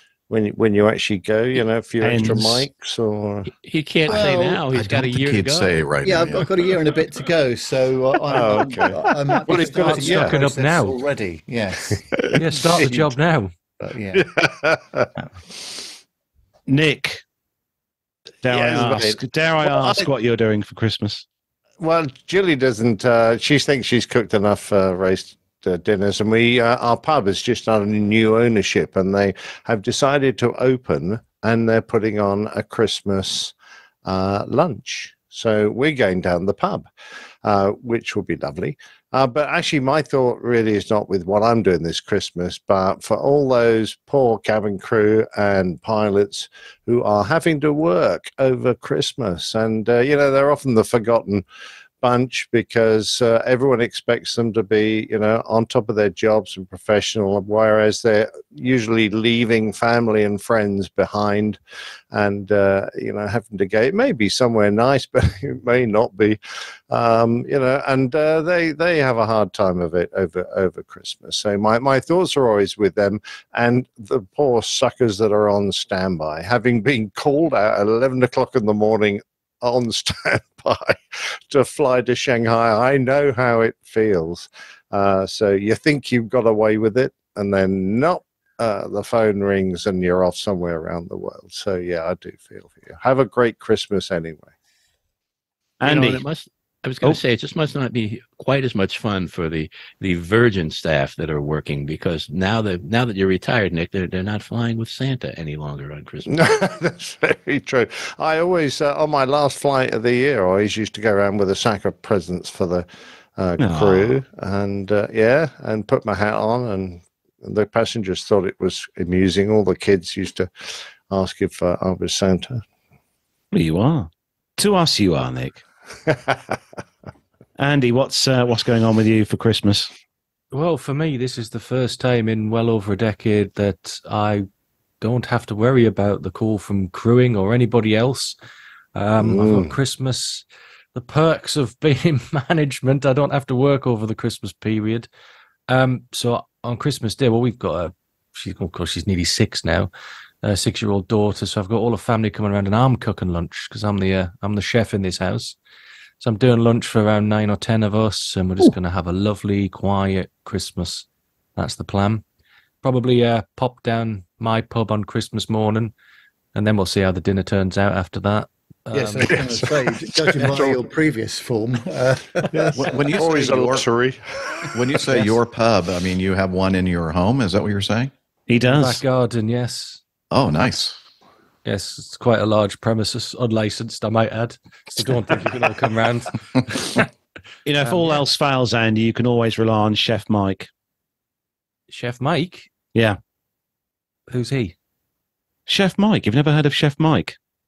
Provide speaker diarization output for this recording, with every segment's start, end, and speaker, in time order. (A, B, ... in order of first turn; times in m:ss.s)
0:00.3-0:03.5 A
0:02.0-0:02.7 B
0:03.5-0:06.3 C
0:04.1-0:04.6 D
0:04.7-0:06.7 E
0:06.0-0:12.2 D
0:08.3-0:10.4 A
0:09.7-0:11.0 F
0:12.4-0:13.5 F
0:13.8-0:14.3 D
0:14.1-0:15.1 A
0:16.7-0:17.2 B
0:18.4-0:21.2 B
0:18.5-0:20.1 A
0:21.8-0:33.5 A
0:34.0-0:36.9 A
0:37.4-0:51.4 A
0:52.0-1:01.6 A
1:02.1-1:34.5 A
1:35.8-1:36.2 B
1:35.8-1:46.4 C
1:46.3-2:02.6 A
1:53.6-1:54.2 B
2:03.5-2:05.6 B
2:07.6-2:09.9 B
2:10.5-2:14.4 F
2:15.0-2:18.4 F
2:18.9-2:25.1 F
2:19.2-2:19.7 A
2:25.7-2:29.9 F
2:30.4-2:35.6 F
2:36.2-2:42.2 F
2:42.8-2:45.9 F
2:46.5-2:49.4 F
2:48.9-2:52.9 D
2:49.2-2:50.8 A
2:52.5-2:55.3 A
2:52.7-2:53.9 E
2:54.7-2:58.1 E
2:58.5-2:59.0 B
2:58.6-3:00.0 F
3:00.3-3:01.0 E
3:01.6-3:07.1 F
3:07.6-3:10.7 B
3:07.8-3:08.2 F
3:11.9-3:12.7 F
3:14.3-3:14.7 F
3:15.7-3:17.4 B